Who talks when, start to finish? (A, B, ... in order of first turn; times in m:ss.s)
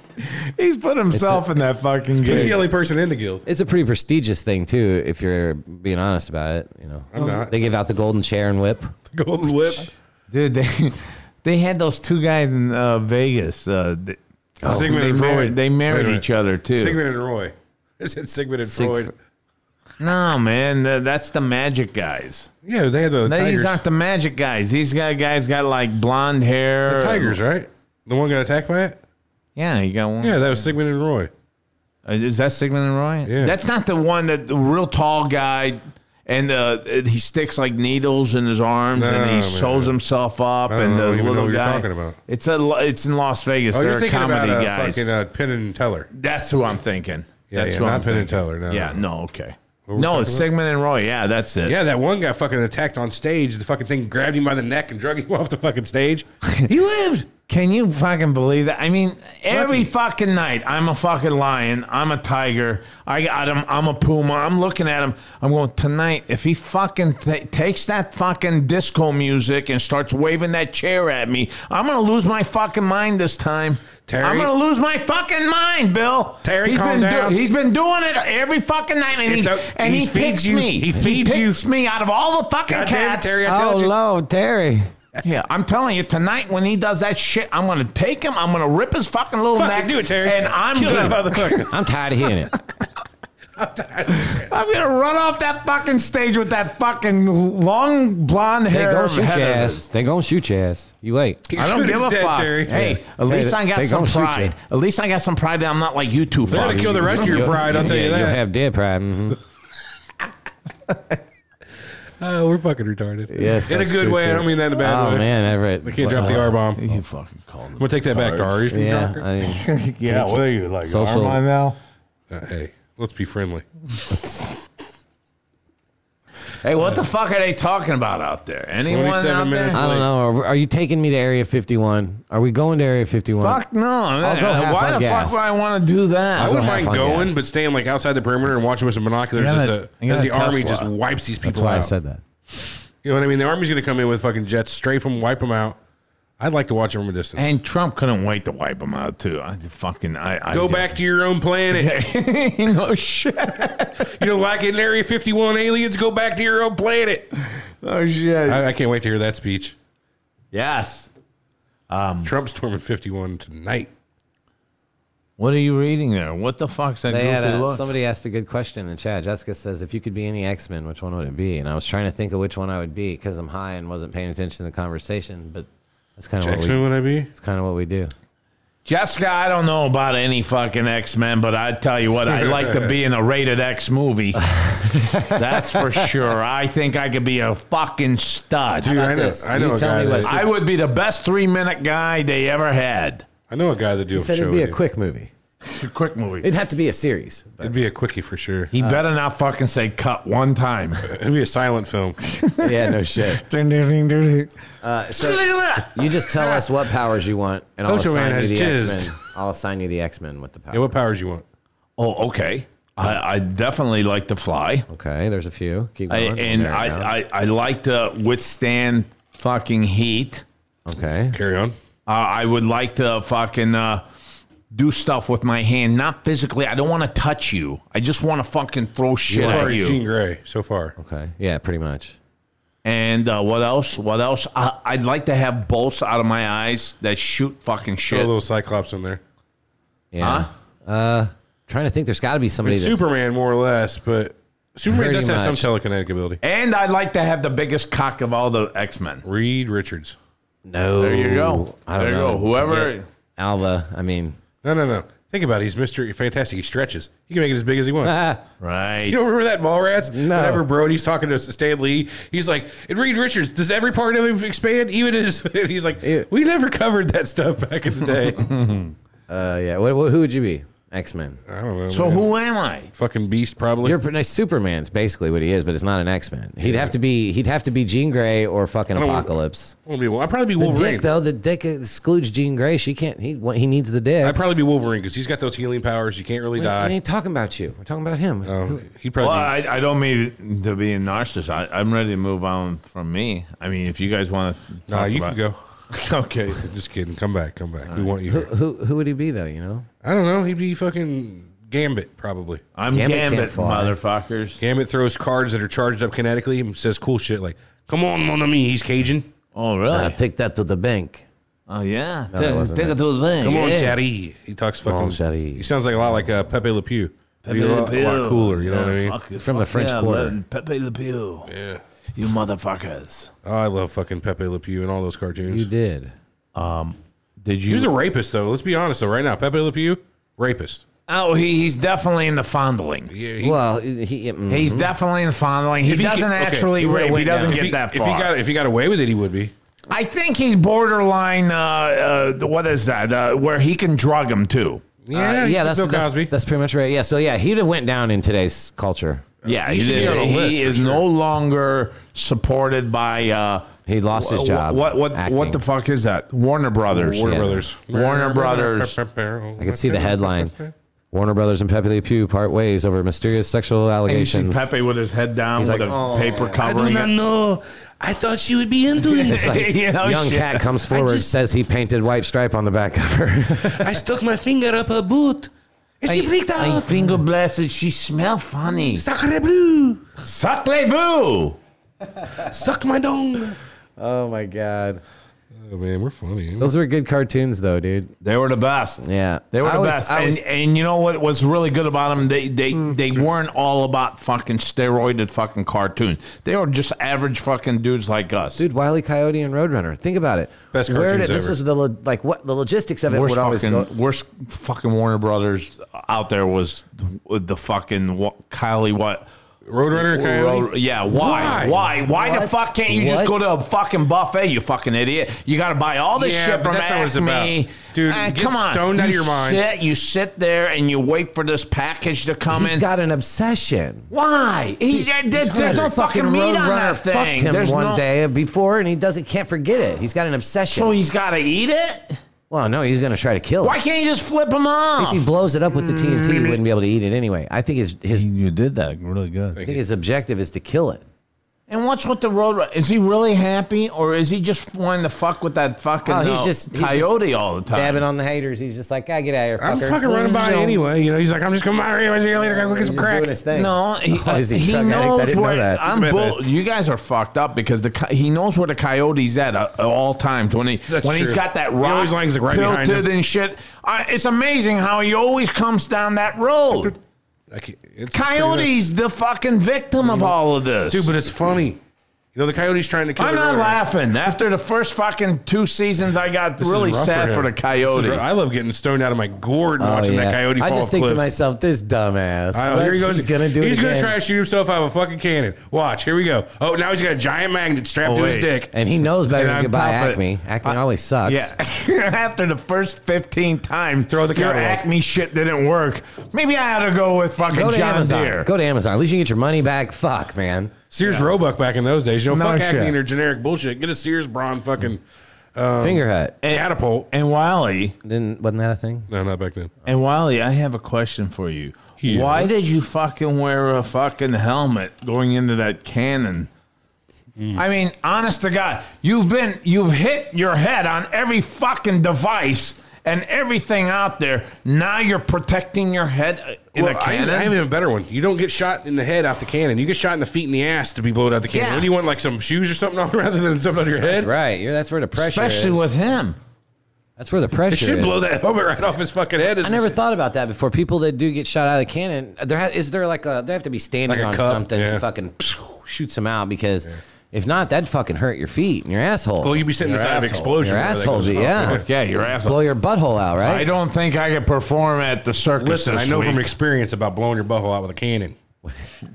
0:00.2-0:02.6 A
0:01.1-0:01.4 B
0:02.2-0:03.4 C
0:03.5-0:09.0 B
0:07.1-0:07.5 C
0:09.1-0:09.9 C
0:10.3-0:17.0 A
0:14.6-0:19.1 C
0:18.7-0:19.1 B
0:20.0-0:22.5 A
0:22.6-0:23.8 C
0:23.2-0:27.4 A
0:26.9-0:29.0 C
0:29.6-0:30.4 A
0:30.2-0:31.3 C
0:32.0-0:45.0 A
0:33.3-0:33.6 C
0:39.0-0:39.9 C
0:40.7-0:42.2 C
0:43.7-0:46.1 C
0:46.1-0:51.8 A
0:47.5-0:49.0 C
0:49.9-0:50.5 C
0:51.6-0:57.3 C
0:57.5-1:23.4 A
0:59.5-0:59.9 C
1:14.1-1:14.5 C
1:16.4-1:17.4 C
1:19.2-1:21.6 C
1:22.7-1:23.9 C
1:23.4-1:24.9 B
1:25.2-1:31.7 A
1:29.5-1:31.7 C
1:31.7-1:32.5 B
1:33.6-1:34.6 C
1:34.2-1:39.8 A
1:38.7-1:41.4 B
1:41.5-1:47.8 A
1:41.5-1:42.9 C
1:42.7-1:44.5 B
1:46.5-1:49.4 B
1:46.5-1:48.4 C
1:52.2-1:55.3 C
1:53.3-1:56.5 B
1:55.8-1:57.0 C
1:56.1-1:58.6 A
1:57.8-1:59.2 C
1:58.7-2:01.4 B
1:59.4-2:01.8 A
2:02.3-2:03.7 C
2:06.6-2:09.9 A
2:08.8-2:10.1 C
2:09.7-2:13.6 B
2:13.4-2:16.8 A
2:14.2-2:15.4 B
2:16.4-2:17.4 B
2:16.4-2:21.9 C
2:19.4-2:20.9 A
2:21.4-2:22.2 B
2:23.0-2:25.8 C
2:26.4-2:27.5 C
2:27.4-2:31.0 A
2:30.5-2:31.9 C
2:31.7-2:34.1 A
2:34.0-2:37.3 C
2:37.6-2:38.6 A
2:38.5-2:39.8 C
2:40.5-2:41.1 A
2:41.9-2:42.3 A
2:42.2-2:43.9 C
2:45.4-2:47.8 A
2:47.1-2:58.1 B
2:56.4-2:57.3 C
2:58.8-3:04.6 A
3:02.3-3:03.0 C
3:04.4-3:06.1 B
3:05.2-3:08.9 A
3:08.8-3:10.4 B
3:08.8-3:10.4 C
3:10.2-3:13.2 A
3:13.5-3:14.8 C
3:14.1-3:15.3 B
3:15.7-3:16.5 A
3:16.4-3:17.8 B
3:17.6-3:18.7 C
3:18.7-3:21.1 A
3:18.8-3:19.0 B
3:21.0-3:22.2 C
3:22.2-3:24.5 A
3:22.6-3:23.4 B
3:24.8-3:30.9 B
3:25.2-3:26.6 A
3:27.9-3:29.1 C
3:30.7-3:31.4 C
3:32.0-3:34.9 A
3:34.9-3:37.1 B
3:36.1-3:40.4 A
3:40.9-3:41.4 B
3:41.3-3:41.8 C
3:42.1-3:44.0 A
3:44.7-3:50.0 A
3:49.3-3:49.8 B
3:49.4-3:51.0 C
3:51.0-3:52.2 B
3:52.8-3:58.3 A
3:58.1-3:59.2 C
4:00.1-4:03.0 B
4:00.2-4:00.5 A
4:02.6-4:06.4 C
4:04.8-4:05.7 B
4:06.4-4:09.2 A
4:09.2-4:10.2 C
4:10.7-4:14.4 B
4:11.0-4:13.0 A
4:14.6-4:18.2 C
4:18.0-4:18.4 B
4:18.6-4:19.2 A
4:19.1-4:28.6 C
4:20.1-4:20.6 B
4:26.0-4:26.3 B
4:28.5-4:28.9 A
4:29.3-4:31.4 B
4:31.5-4:32.3 C
4:31.9-4:32.9 A
4:33.0-4:34.0 C
4:33.8-4:39.8 B
4:36.6-4:37.0 C
4:38.9-4:41.1 C
4:40.6-4:44.4 B
4:44.2-4:47.0 C
4:46.6-4:48.8 B
4:48.4-4:49.5 C
4:49.2-4:55.4 A
4:54.9-4:55.6 C
4:55.9-4:56.7 A
4:56.6-4:58.5 C
4:57.9-4:59.9 B
5:00.0-5:02.6 C
5:02.8-5:04.6 A
5:02.9-5:04.0 B
5:04.6-5:09.3 C
5:09.6-5:10.2 A
5:09.9-5:11.3 B
5:11.7-5:14.0 A
5:12.3-5:13.0 B
5:13.4-5:19.2 C
5:14.8-5:15.7 B
5:17.4-5:21.5 A
5:19.4-5:20.4 B
5:21.5-5:21.8 C
5:22.2-5:23.3 A
5:23.4-5:25.7 C
5:25.5-5:26.1 B
5:26.6-5:27.9 A
5:27.7-5:30.8 C
5:31.1-5:33.1 A
5:33.1-5:33.6 C
5:33.4-5:34.9 B
5:34.5-5:38.3 A
5:35.8-5:39.5 C
5:36.8-5:37.7 B
5:39.9-5:44.8 A
5:45.0-5:46.3 C
5:45.1-5:49.3 B
5:49.4-5:51.0 C
5:49.5-5:59.0 A
5:53.9-5:55.6 B
5:56.9-6:00.7 C
5:57.2-5:57.7 B
5:59.6-6:00.5 B
6:01.1-6:04.7 B
6:04.1-6:07.1 A
6:05.6-6:06.6 B
6:06.6-6:09.6 C
6:09.0-6:10.8 A
6:09.3-6:14.0 B
6:10.9-6:11.3 C
6:13.6-6:15.5 C
6:16.0-6:17.1 C
6:16.1-6:19.0 A
6:18.9-6:20.1 C
6:20.2-6:21.6 A
6:22.3-6:23.6 C
6:24.0-6:25.0 B
6:25.5-6:26.7 C
6:26.6-6:28.1 B
6:28.2-6:38.6 A
6:29.0-6:30.4 B
6:38.6-6:43.9 B
6:40.7-6:41.6 C
6:43.1-6:49.3 A
6:49.7-6:51.9 C
6:49.9-7:02.8 A
6:52.0-6:53.5 B
6:56.2-6:59.6 C
7:02.5-7:04.1 B
7:04.1-7:08.0 A
7:04.9-7:11.0 B
7:05.5-7:05.9 C
7:10.7-7:12.2 A
7:12.5-7:13.8 B
7:13.6-7:15.3 A
7:15.0-7:18.3 B
7:18.1-7:19.6 A
7:19.6-7:19.8 C
7:19.6-7:21.0 B
7:21.7-7:28.0 A
7:26.0-7:27.2 B
7:27.7-7:30.6 B
7:29.6-7:33.3 C
7:30.1-7:30.8 A
7:32.4-7:35.8 B
7:33.5-7:47.0 A
7:35.8-7:36.4 C
7:40.9-7:43.1 C
7:47.5-7:48.9 C
7:48.1-7:51.2 A
7:50.9-7:51.8 C
7:52.4-7:53.8 C
7:53.2-7:58.2 A
7:56.6-8:01.3 C
7:59.8-8:04.2 B
8:02.5-8:08.7 C
8:08.0-8:08.6 A
8:08.7-8:11.5 B
8:09.3-8:18.5 A
8:14.1-8:14.8 C
8:17.5-8:20.8 B
8:20.9-8:25.0 C
8:21.0-8:21.3 A
8:22.3-8:23.0 A
8:25.6-8:27.1 C
8:25.8-8:26.4 B
8:26.4-8:28.0 A
8:28.0-8:29.1 B
8:29.1-8:29.7 C
8:29.8-8:36.5 A
8:32.0-8:32.6 C
8:37.4-8:37.6 C
8:37.6-8:47.6 A
8:46.8-8:54.3 C
8:51.5-8:51.9 A
8:54.0-8:55.9 B
8:55.2-8:56.4 A
8:57.2-8:58.2 B
8:57.7-9:00.0 C
8:59.6-9:09.7 B
9:04.1-9:05.0 C
9:09.4-9:11.8 C
9:09.8-9:10.5 A
9:10.6-9:13.7 B
9:11.5-9:12.6 A
9:13.4-9:16.5 A
9:15.6-9:18.4 C
9:18.6-9:19.0 B